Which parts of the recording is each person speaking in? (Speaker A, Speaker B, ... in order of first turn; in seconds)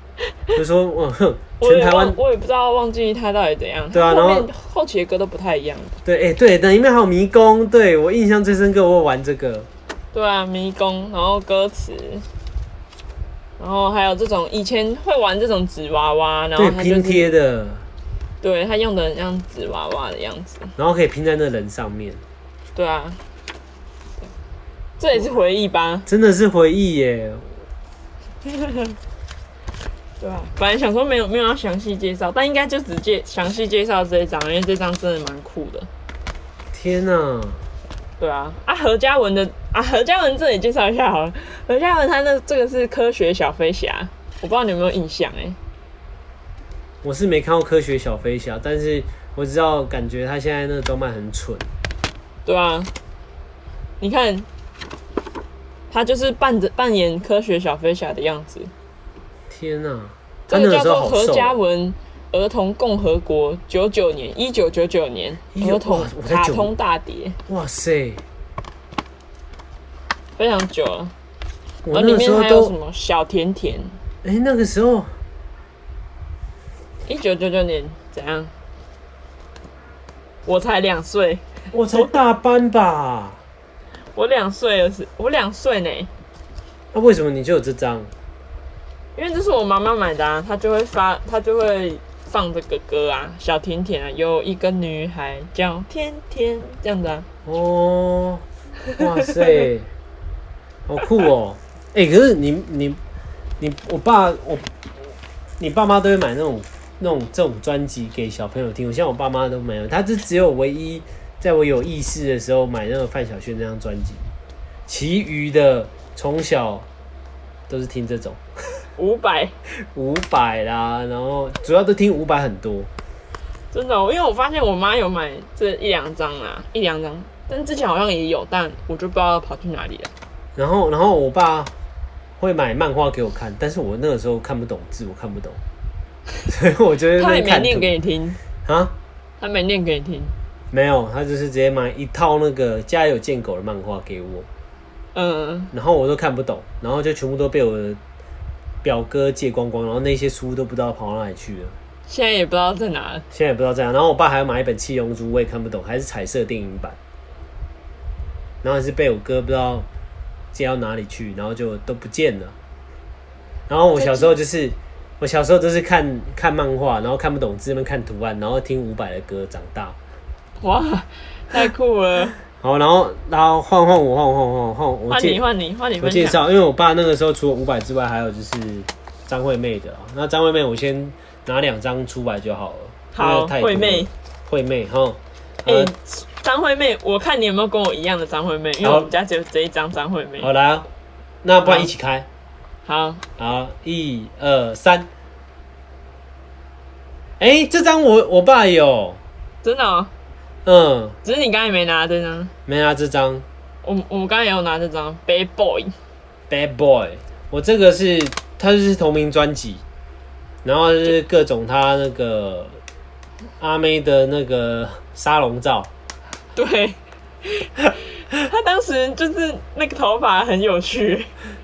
Speaker A: 0.6-2.2, 3.9-4.5, 6.0-9.7, 16.6-17.9, 20.8-22.2, 26.1-27.6, 36.7-37.6, 47.0-51.7, 59.5-61.6, 65.5-66.7, 67.5-68.2, 71.8-72.7, 74.2-75.1, 81.7-83.4, 86.9-88.1, 97.5-98.4, 99.0-99.9, 100.9-103.0, 103.6-104.7, 105.6-114.3, 114.9-116.9, 117.7-118.4, 119.9-122.9, 130.6-131.7, 132.4-135.6, 136.5-137.9, 138.7-138.9, 140.7-144.5, 145.7-148.0, 148.8-151.8, 153.3-157.0, 158.6-159.9, 160.5-162.6, 163.7-170.0, 172.5-175.4, 176.0-185.9, 188.8-189.1, 190.4-190.9, 191.4-192.3, 193.4-195.1, 197.4-199.2, 200.7-201.2, 202.7-203.4, 206.5-209.8, 210.6-212.8, 213.6-215.9
Speaker B: 1.6-6.0, 10.1-12.2, 13.6-17.3, 18.4-20.7, 22.8-23.2, 25.0-26.1, 28.5-28.9, 30.2-35.9, 38.2-45.6, 52.5-52.9, 54.0-54.5, 55.9-58.7, 60.5-67.4, 70.4-71.1, 71.9-73.9, 77.0-78.5, 80.5-82.2, 84.2-86.1, 89.2-97.3, 98.9-99.7, 119.0-119.5, 123.7-130.1, 137.2-138.4, 139.4-140.3, 145.2-145.7, 152.1-153.2, 163.9-164.3, 170.6-172.4, 175.1-176.4, 183.1-184.1, 185.7-190.5, 191.6-191.9, 192.9-193.2, 199.6-200.1, 201.2-202.5, 203.8-205.9, 216.6-217.7, 218.3-221.3